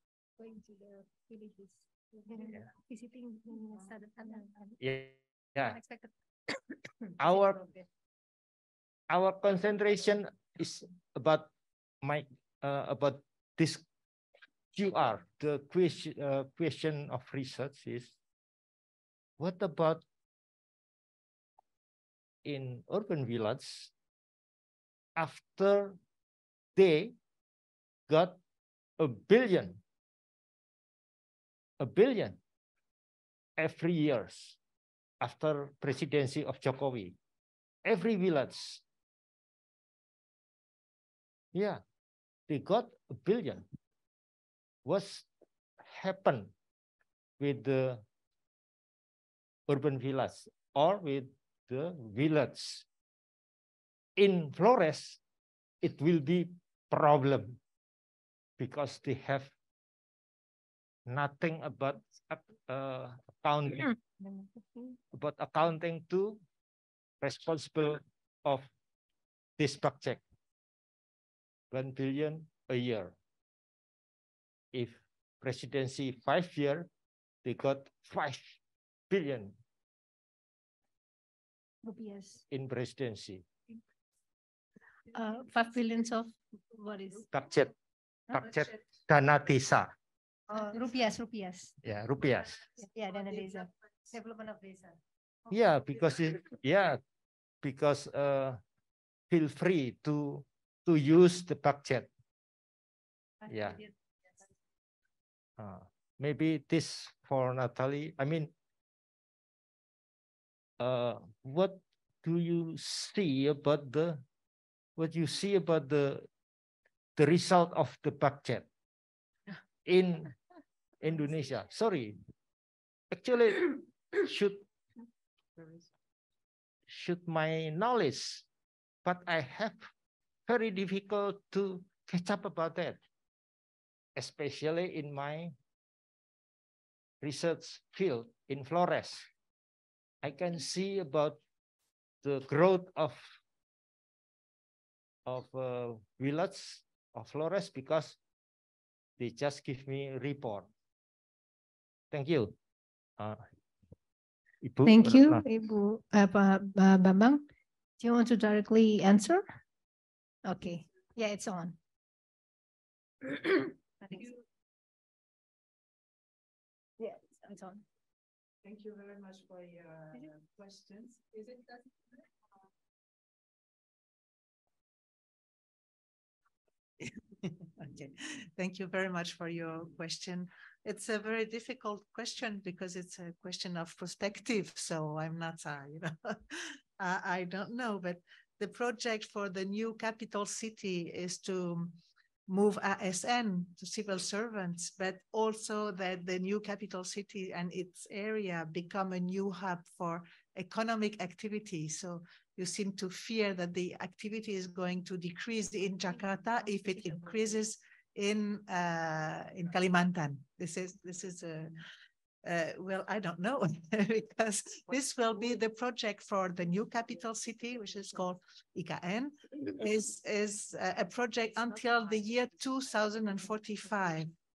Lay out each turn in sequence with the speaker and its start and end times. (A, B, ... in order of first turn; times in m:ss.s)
0:00.4-0:04.7 A
0:04.8-0:05.8 B
0:05.7-0:06.1 A
0:07.2-0:07.6 B
0:09.1-0:11.5 B
0:12.0-0:13.9 B
0:14.7-0:18.2 B
0:19.4-0:20.0 B
0:22.4-0:23.9 B
0:25.2-0:26.0 B
0:26.8-0:27.2 B
0:28.1-0:28.4 B
0:29.0-0:29.8 B
0:31.8-0:32.4 B
0:33.6-0:34.6 B
0:35.2-0:37.2 B
0:37.8-0:38.8 B
0:41.5-0:41.8 B
0:42.5-0:43.7 B
0:44.8-0:45.3 B
0:45.8-0:46.5 B
0:47.4-0:48.0 B
0:49.7-0:52.9 B
0:54.2-0:55.2 B
0:55.8-0:57.6 B
0:58.6-0:59.5 B
1:01.1-1:03.9 B
1:05.1-1:06.4 B
1:07.2-1:08.7 B
1:09.6-1:10.2 B
1:11.7-1:13.2 B
1:14.7-1:16.9 B
1:17.4-1:18.6 B
1:19.1-1:19.6 B
1:21.8-1:22.4 A
1:22.5-1:23.4 B
1:25.1-1:27.3 A
1:27.3-1:27.7 B
1:28.3-1:29.9 B
1:30.5-1:31.7 A
1:31.8-1:32.6 B
1:32.8-1:35.0 A
1:35.5-1:37.0 B
1:37.6-1:38.6 B
1:39.3-1:42.1 B
1:43.5-1:43.8 B
1:45.6-1:48.5 B
1:50.8-1:54.2 B
1:55.0-1:56.3 B
1:57.2-1:58.7 B
1:59.9-2:00.3 B
2:01.0-2:02.2 B
2:03.1-2:04.6 B
2:06.9-2:08.4 B
2:09.0-2:09.9 B
2:10.5-2:13.0 B
2:14.2-2:15.6 B
2:17.2-2:19.3 B
2:20.2-2:21.4 B
2:22.2-2:23.2 B
2:25.3-2:28.2 B
2:29.2-2:30.7 B
2:32.1-2:32.6 B
2:33.2-2:33.4 B
2:34.6-2:35.4 B
2:34.9-2:37.4 A
2:38.0-2:39.4 A
2:40.4-2:41.8 A
2:43.3-2:44.3 A
2:47.0-2:47.8 A
2:48.6-2:51.6 C
2:57.0-3:31.8 C
3:32.4-3:44.3 C